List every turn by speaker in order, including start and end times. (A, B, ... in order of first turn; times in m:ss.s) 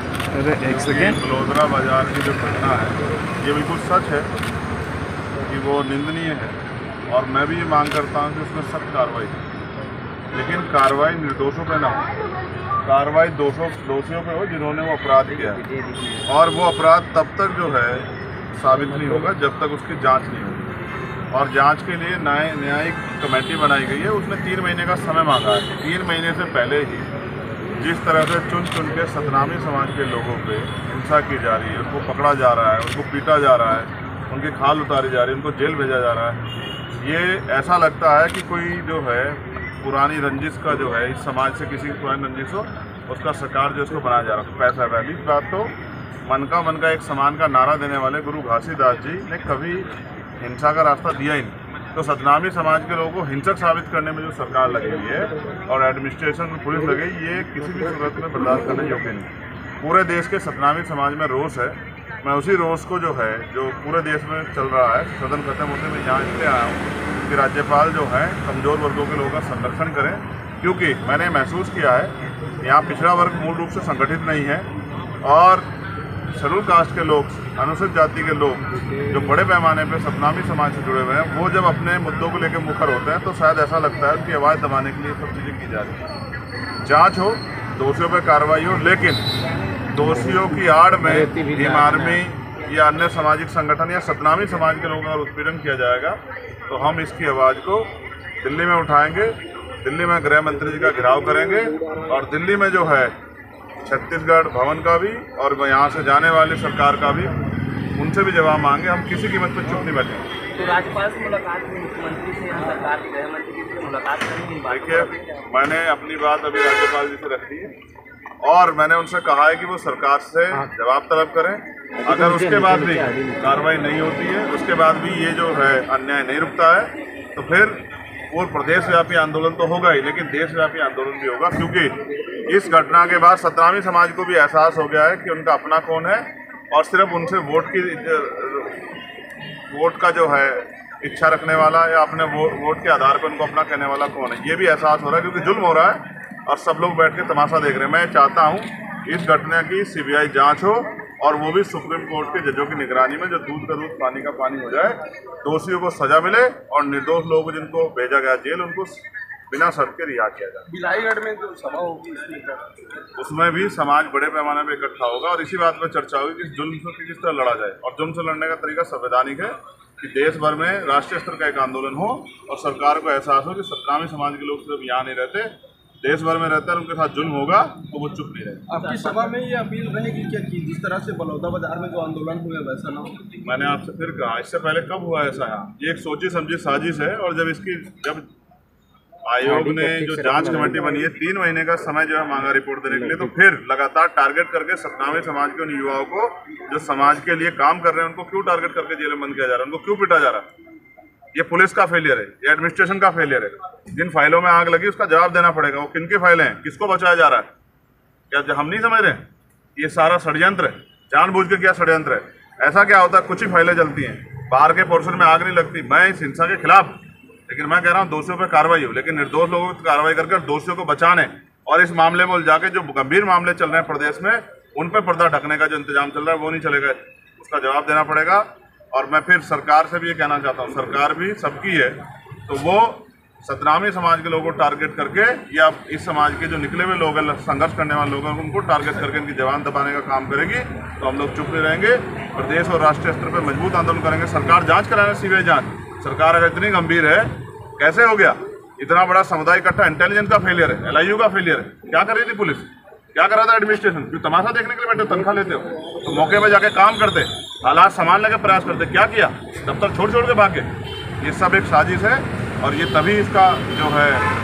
0:00.3-0:01.0 A
0:00.6-0:04.3 B
0:05.4-0:06.6 B
0:07.1-0:09.4 B
0:10.3-0:12.1 B
0:12.8-0:15.6 B
0:15.4-0:16.1 C
0:16.2-0:20.7 B
0:21.3-0:27.1 B
0:27.8-0:36.4 B
0:37.0-0:45.7 B
0:46.2-1:14.7 B
1:15.2-1:15.7 B
1:16.3-1:26.0 B
1:26.8-1:29.2 B
1:29.9-1:43.1 B
1:30.1-1:32.2 A
1:43.8-1:47.3 B
1:48.0-1:50.3 B
1:50.5-1:55.4 C
1:54.7-1:57.7 B
1:58.4-2:18.8 B
2:02.0-2:03.6 A
2:19.7-2:40.7 B
2:40.7-2:42.7 D
2:43.2-2:58.6 B
2:58.7-3:03.4 D
2:58.8-2:59.2 C
3:03.4-3:08.3 B
3:09.2-3:20.5 B
3:09.4-3:10.9 A
3:12.9-3:13.3 A
3:21.3-3:27.5 B
3:28.3-3:29.2 B
3:29.8-3:37.0 B
3:37.5-4:20.7 B
4:21.2-4:24.3 B